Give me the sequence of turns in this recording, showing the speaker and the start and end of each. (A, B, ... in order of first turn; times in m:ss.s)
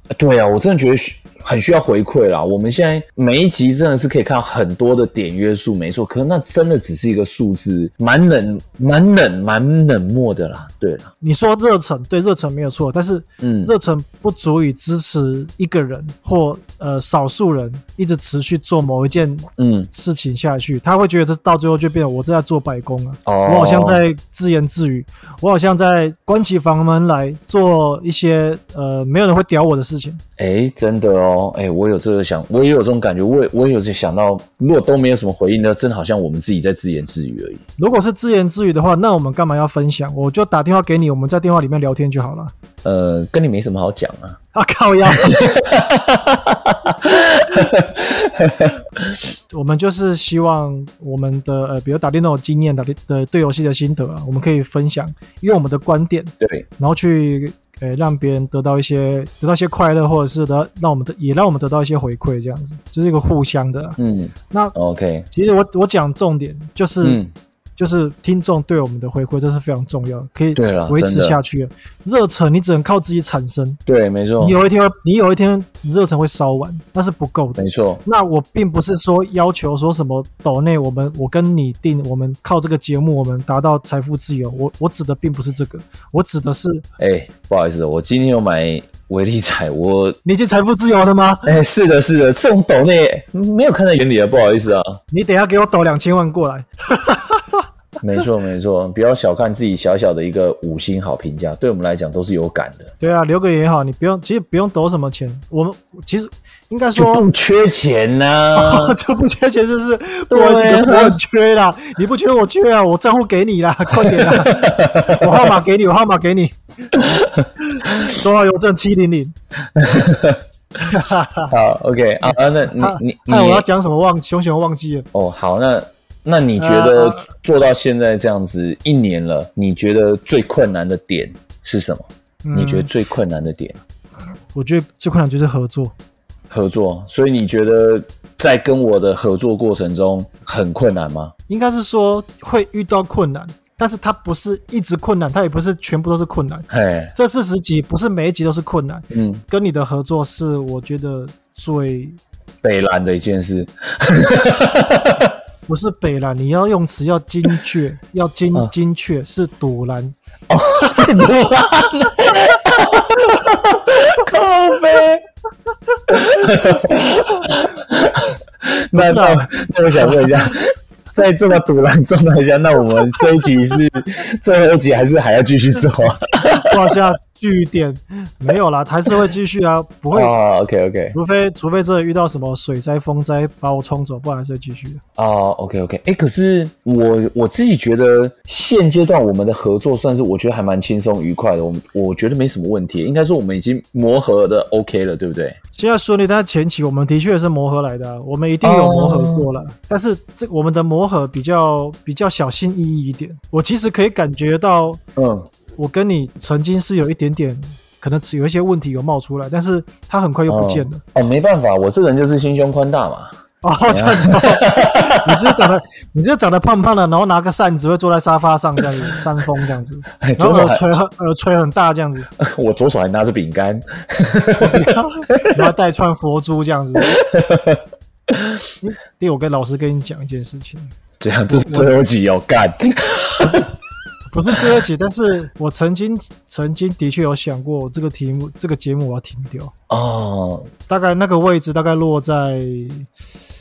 0:00.1-0:11.1 A
0:11.2-0:30.2 B
0:13.4-0:13.7 A
0:19.6-0:19.9 A
0:23.2-0:24.0 A
0:30.4-0:37.6 A
0:37.8-0:42.5 B
0:42.8-0:44.4 A
0:44.5-0:45.4 B
0:45.1-0:49.2 A
0:49.5-1:04.0 B
1:04.0-1:05.3 A
1:05.3-1:07.2 B
1:07.0-1:07.3 A
1:07.8-1:13.8 B
1:10.5-1:11.4 A
1:13.8-1:14.6 A
1:14.4-1:26.8 B
1:17.6-1:18.0 A
1:27.0-1:30.2 A
1:30.2-1:31.5 B
1:31.4-1:35.0 A
1:35.1-1:37.6 B
1:38.0-1:42.9 A
1:43.0-1:47.3 B
1:47.0-1:49.0 A
1:48.5-1:56.5 B
1:50.3-1:51.2 A
1:53.9-1:55.6 A
1:56.9-1:58.0 A
1:57.6-1:59.3 B
1:59.7-2:00.4 A
2:00.8-2:01.5 B
2:01.5-2:03.6 A
2:02.2-2:05.0 B
2:05.1-2:13.8 A
2:06.6-2:07.2 B
2:12.4-2:12.9 B
2:14.5-2:15.9 B
2:16.5-2:21.3 A
2:21.5-2:32.2 B
2:26.7-2:27.1 A
2:29.1-2:29.4 A
2:32.6-2:35.4 A
2:35.7-2:40.2 B
2:40.5-2:45.2 A
2:40.8-2:41.2 B
2:46.1-2:56.9 A
2:48.9-2:50.2 B
2:56.5-3:00.3 B
3:00.1-3:01.2 A
3:01.1-3:05.0 B
3:05.2-3:15.6 A
3:15.7-3:25.0 B
3:18.6-3:19.5 A
3:25.2-3:25.5 A
3:25.8-3:31.0 B
3:30.5-3:33.3 A
3:33.6-3:42.3 B
3:33.9-3:35.7 A
3:40.2-3:40.8 A
3:42.4-3:45.6 A
3:44.6-3:47.2 B
3:47.0-3:48.6 A
3:48.8-3:50.9 B
3:51.2-3:53.6 A
3:51.5-3:51.9 B
3:53.4-3:53.7 B
3:54.3-3:59.7 B
3:59.9-4:00.7 A
4:00.9-4:03.1 B